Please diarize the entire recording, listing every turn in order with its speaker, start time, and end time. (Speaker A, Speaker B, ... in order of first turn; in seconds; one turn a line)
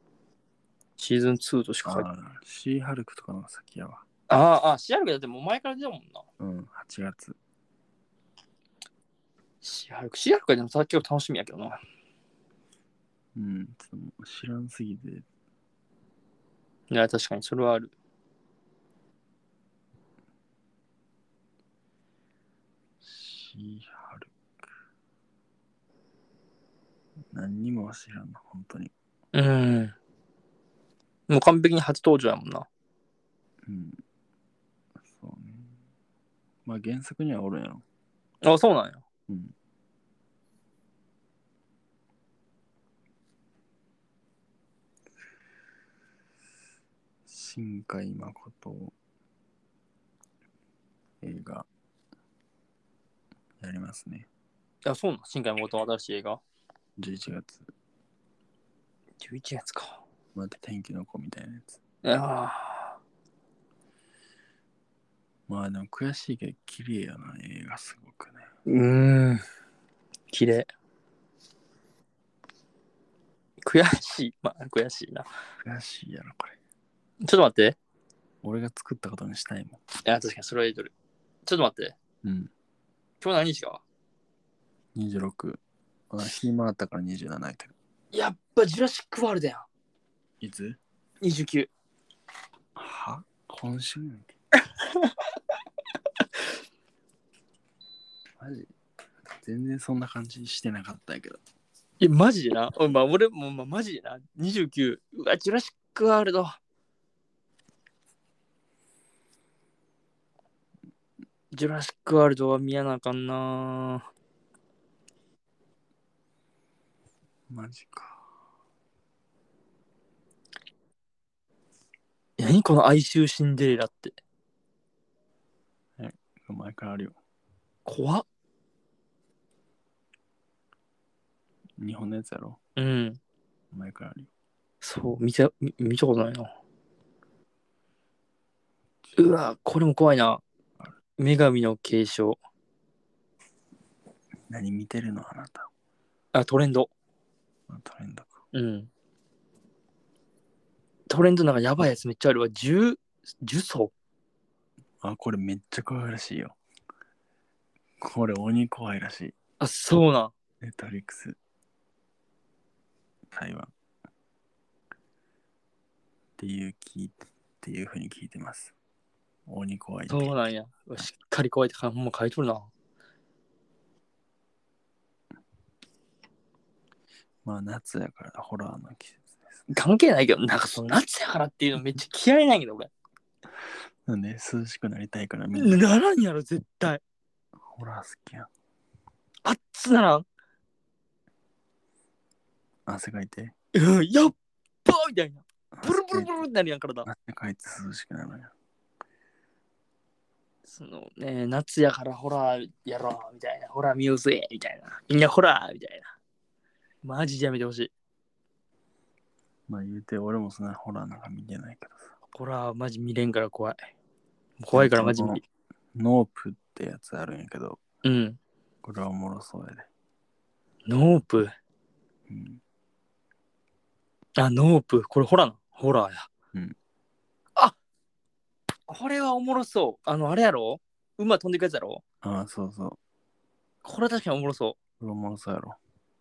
Speaker A: 1.0-2.1
Speaker B: 1.8-4.0
Speaker A: 4.3-6.2
Speaker B: 6.4-7.4
Speaker A: 9.6-11.8
Speaker B: 13.3-15.2
Speaker A: 16.9-17.9
Speaker B: 23.0-24.3
Speaker B: 27.3-28.9
Speaker A: 29.3-29.9
Speaker A: 31.3-32.7
Speaker B: 33.6-34.0
Speaker B: 35.0-35.7
Speaker B: 36.6-37.8
Speaker A: 38.4-39.0
Speaker B: 39.3-39.5
Speaker B: 47.2-48.9
Speaker B: 51.2-51.7
Speaker B: 53.6-54.3
Speaker A: 54.8-56.4
Speaker B: 57.0-57.7
Speaker A: 59.2-60.0
Speaker B: 60.3-61.8
Speaker A: 62.0-63.0
Speaker B: 65.5-68.5
Speaker A: 68.7-69.4
Speaker A: 70.3-70.7
Speaker A: 73.6-75.3
Speaker B: 75.6-76.6
Speaker A: 77.2-77.8
Speaker B: 78.4-79.8
Speaker A: 80.0-80.9
Speaker A: 81.5-82.0
Speaker B: 82.2-82.5
Speaker A: 83.2-83.8
Speaker B: 84.9-87.7
Speaker A: 88.1-89.7
Speaker B: 90.4-90.8
Speaker A: 91.2-91.7
Speaker B: 92.8-94.3
Speaker B: 98.4-98.7
Speaker B: 99.4-101.4
Speaker A: 102.0-106.6
Speaker A: 111.5-114.0
Speaker B: 117.5-118.2
Speaker A: 122.4-124.2
Speaker B: 126.0-127.1
Speaker A: 127.8-128.2
Speaker B: 131.8-132.6
Speaker A: 132.8-133.2
Speaker B: 133.7-134.3
Speaker A: 134.8-136.5
Speaker A: 139.2-140.4
Speaker A: 141.2-142.4
Speaker B: 144.5-145.7
Speaker A: 146.3-146.9
Speaker B: 147.7-148.3
Speaker A: 148.5-148.9
Speaker A: 151.1-153.9
Speaker B: 155.0-156.6
Speaker B: 158.0-159.3
Speaker A: 159.6-160.3
Speaker B: 160.6-161.4
Speaker B: 163.3-163.7
Speaker B: 166.4-168.7
Speaker B: 169.5-170.3
Speaker A: 170.1-172.7
Speaker B: 177.4-179.7
Speaker A: 179.7-182.9
Speaker B: 184.1-185.8
Speaker A: 185.5-187.0
Speaker B: 187.6-188.5
Speaker A: 189.4-190.2
Speaker B: 192.9-193.5
Speaker A: 193.7-197.1
Speaker B: 195.7-196.4
Speaker B: 197.0-198.5
Speaker A: 200.7-206.1
Speaker A: 207.0-207.9
Speaker B: 209.7-212.1
Speaker A: 212.3-213.8
Speaker A: 214.6-215.4
Speaker B: 214.7-215.4
Speaker B: 215.9-217.8
Speaker A: 218.0-218.4
Speaker B: 218.8-219.9
Speaker A: 220.9-221.5
Speaker B: 222.3-222.6
Speaker A: 224.4-226.3
Speaker A: 228.9-232.0
Speaker B: 232.2-233.0
Speaker A: 233.8-234.8
Speaker B: 235.0-235.8